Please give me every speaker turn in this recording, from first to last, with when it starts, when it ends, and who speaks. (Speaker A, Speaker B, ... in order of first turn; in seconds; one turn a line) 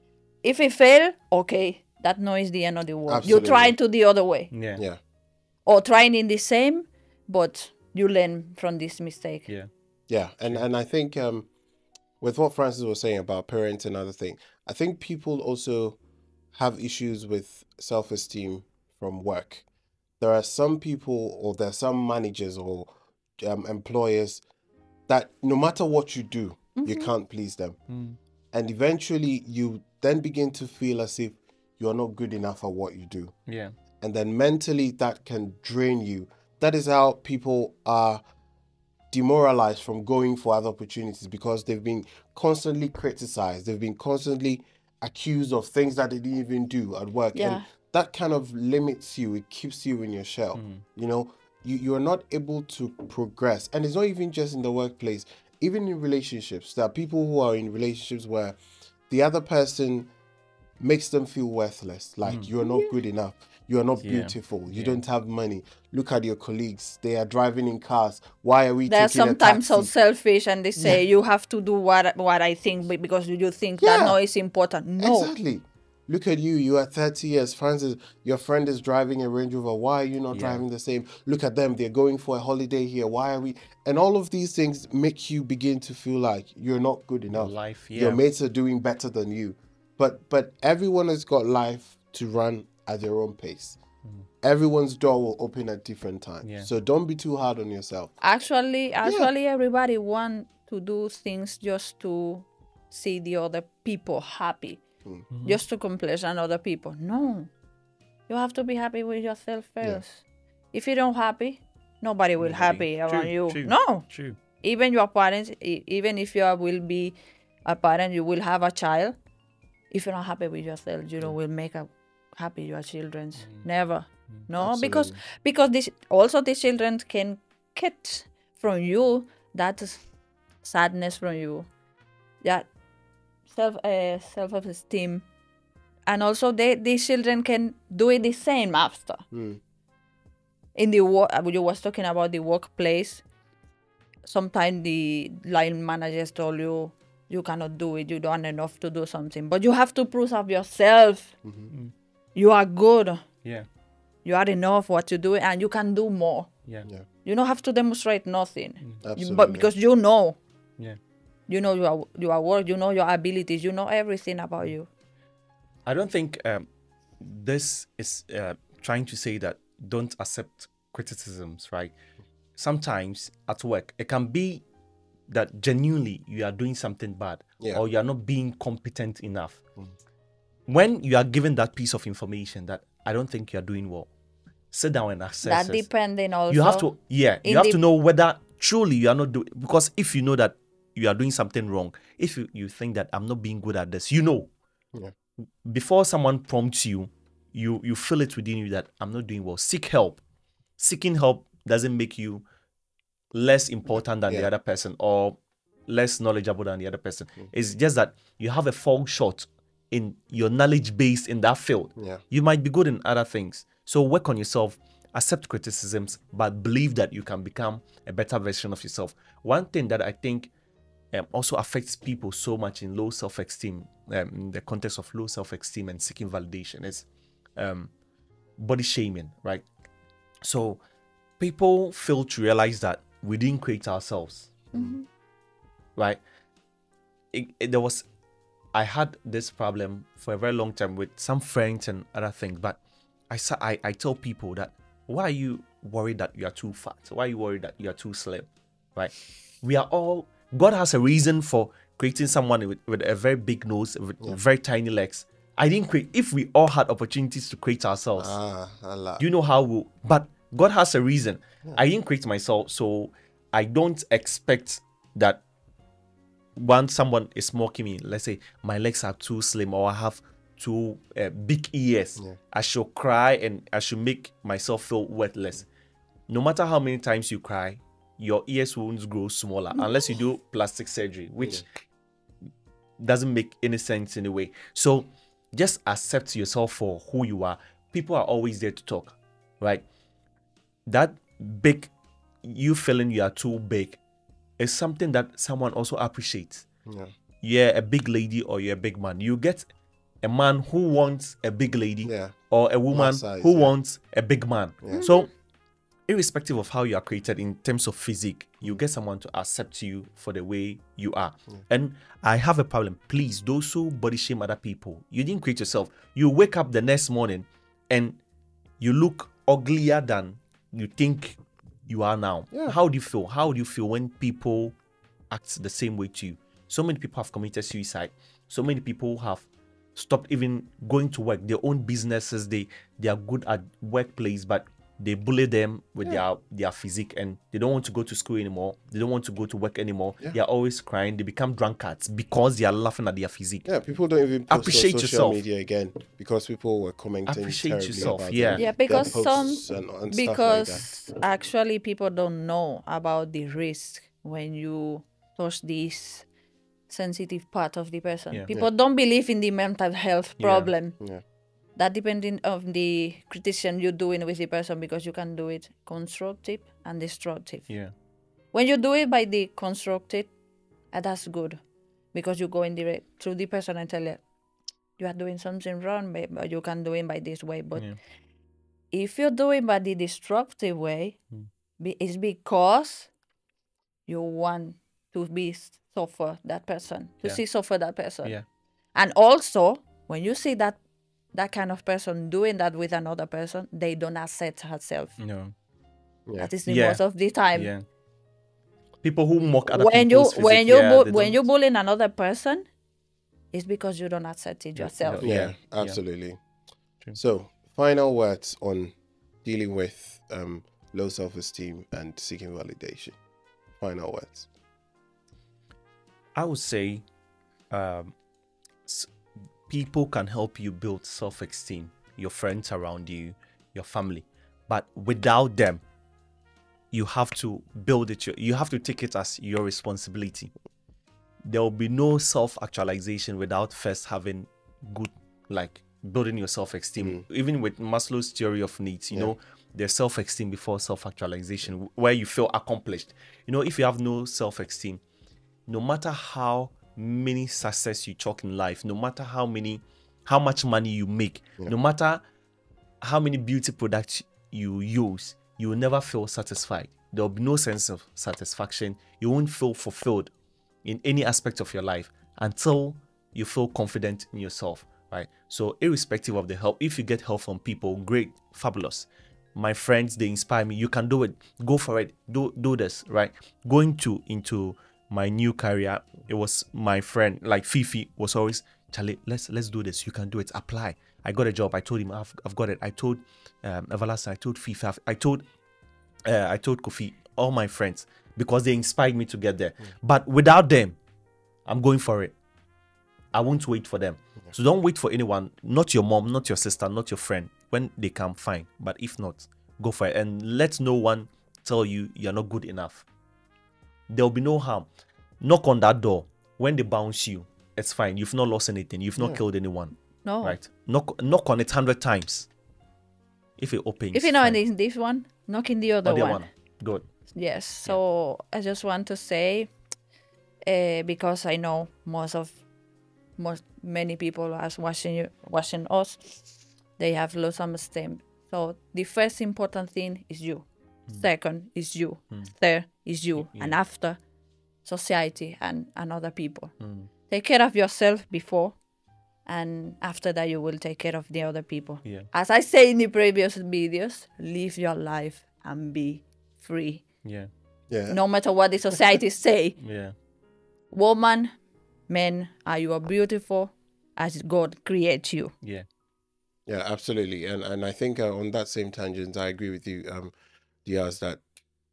Speaker A: 0.4-4.5
Speaker B: 3.1-3.7
Speaker C: 4.5-4.8
Speaker A: 5.7-9.5
Speaker B: 10.1-11.5
Speaker B: 12.2-16.0
Speaker B: 16.5-19.6
Speaker B: 20.2-24.4
Speaker B: 25.1-27.8
Speaker A: 26.8-27.1
Speaker C: 27.9-28.2
Speaker B: 28.5-33.4
Speaker C: 33.5-33.7
Speaker B: 34.0-38.2
Speaker B: 39.1-58.6
Speaker A: 47.3-47.6
Speaker C: 50.6-50.8
Speaker B: 59.1-60.1
Speaker B: 60.8-69.9
Speaker C: 62.2-62.5
Speaker A: 62.6-62.9
Speaker C: 64.0-65.0
Speaker A: 68.9-75.3
Speaker B: 73.8-74.2
Speaker B: 75.0-93.8
Speaker C: 80.3-80.6
Speaker C: 87.3-88.2
Speaker B: 94.4-98.1
Speaker C: 96.4-96.7
Speaker A: 98.2-104.8
Speaker B: 99.0-99.3
Speaker C: 105.3-105.6
Speaker A: 105.4-107.5
Speaker A: 108.3-114.1
Speaker C: 112.4-114.4
Speaker A: 114.6-119.2
Speaker A: 119.9-130.0
Speaker C: 123.4-123.7
Speaker B: 124.6-125.2
Speaker A: 130.6-131.7
Speaker A: 133.5-135.3
Speaker A: 136.1-139.2
Speaker B: 139.3-139.6
Speaker A: 140.8-143.2
Speaker A: 144.3-151.3
Speaker B: 151.4-151.7
Speaker A: 152.3-153.3
Speaker A: 154.2-156.5
Speaker A: 157.2-160.4
Speaker B: 159.0-159.7
Speaker A: 161.5-164.9
Speaker C: 165.9-166.7
Speaker C: 167.2-171.9
Speaker C: 172.6-174.7
Speaker C: 175.3-179.6
Speaker C: 180.7-184.1
Speaker C: 184.7-185.9
Speaker A: 185.4-186.9
Speaker C: 186.5-194.5
Speaker A: 187.4-187.8
Speaker C: 195.6-200.2
Speaker C: 200.8-202.4
Speaker C: 203.3-220.5
Speaker B: 212.0-212.2
Speaker C: 221.1-227.9
Speaker C: 228.6-229.7
Speaker C: 230.4-230.8
Speaker C: 231.4-234.6
Speaker A: 234.7-235.1
Speaker C: 236.0-236.2
Speaker C: 237.3-238.1
Speaker C: 238.7-242.8
Speaker C: 243.3-258.4
Speaker B: 258.2-259.2
Speaker C: 259.2-265.4
Speaker C: 266.6-275.7
Speaker C: 276.3-281.7
Speaker C: 283.0-289.9
Speaker C: 290.9-291.9
Speaker C: 292.4-294.0
Speaker C: 294.6-296.7
Speaker B: 296.9-297.1
Speaker C: 297.4-299.7
Speaker C: 300.2-305.3
Speaker B: 302.1-302.3
Speaker B: 302.9-303.7
Speaker B: 304.8-305.1
Speaker A: 304.9-305.2
Speaker C: 306.1-318.2
Speaker C: 318.8-324.8
Speaker B: 322.5-322.8
Speaker C: 325.3-343.7
Speaker B: 343.7-350.9
Speaker C: 344.5-345.4
Speaker C: 347.3-349.1
Speaker A: 348.6-356.3
Speaker A: 356.9-361.0
Speaker C: 360.4-360.7
Speaker A: 361.8-367.7
Speaker A: 368.5-370.3
Speaker A: 370.9-371.6
Speaker A: 372.1-374.2
Speaker A: 375.0-377.9
Speaker A: 378.9-381.2
Speaker A: 381.8-383.1
Speaker A: 384.1-388.4
Speaker A: 388.9-390.8
Speaker A: 391.3-395.1
Speaker C: 395.2-395.5
Speaker A: 396.4-397.7
Speaker C: 396.7-397.0
Speaker C: 397.5-397.9
Speaker C: 399.0-401.4
Speaker A: 399.7-402.7
Speaker A: 403.5-405.3
Speaker C: 404.8-406.0
Speaker B: 405.2-406.4
Speaker B: 407.1-413.2
Speaker B: 413.8-414.5
Speaker C: 416.4-417.1
Speaker C: 417.7-418.1
Speaker C: 418.9-419.1
Speaker C: 419.7-425.8
Speaker C: 426.9-430.5
Speaker C: 431.4-445.0
Speaker B: 437.0-437.2
Speaker C: 445.7-452.2
Speaker C: 453.0-460.3
Speaker C: 460.8-485.5
Speaker C: 486.3-491.0
Speaker C: 491.7-492.3
Speaker C: 493.3-503.1
Speaker C: 504.1-504.9
Speaker C: 505.4-512.5
Speaker A: 510.2-510.6
Speaker C: 513.6-514.6
Speaker A: 514.1-516.5
Speaker C: 516.0-517.1
Speaker A: 517.3-519.7
Speaker A: 520.7-522.6
Speaker A: 523.4-534.2
Speaker C: 533.4-533.8
Speaker A: 534.9-536.7
Speaker C: 536.8-537.1
Speaker A: 537.3-538.8
Speaker A: 539.5-547.0
Speaker C: 542.0-542.3
Speaker C: 547.2-547.5
Speaker B: 547.9-548.2
Speaker A: 548.1-549.8
Speaker C: 549.8-550.1
Speaker A: 550.9-551.5
Speaker A: 552.1-555.5
Speaker C: 555.6-555.9
Speaker B: 556.7-560.3
Speaker B: 560.9-561.4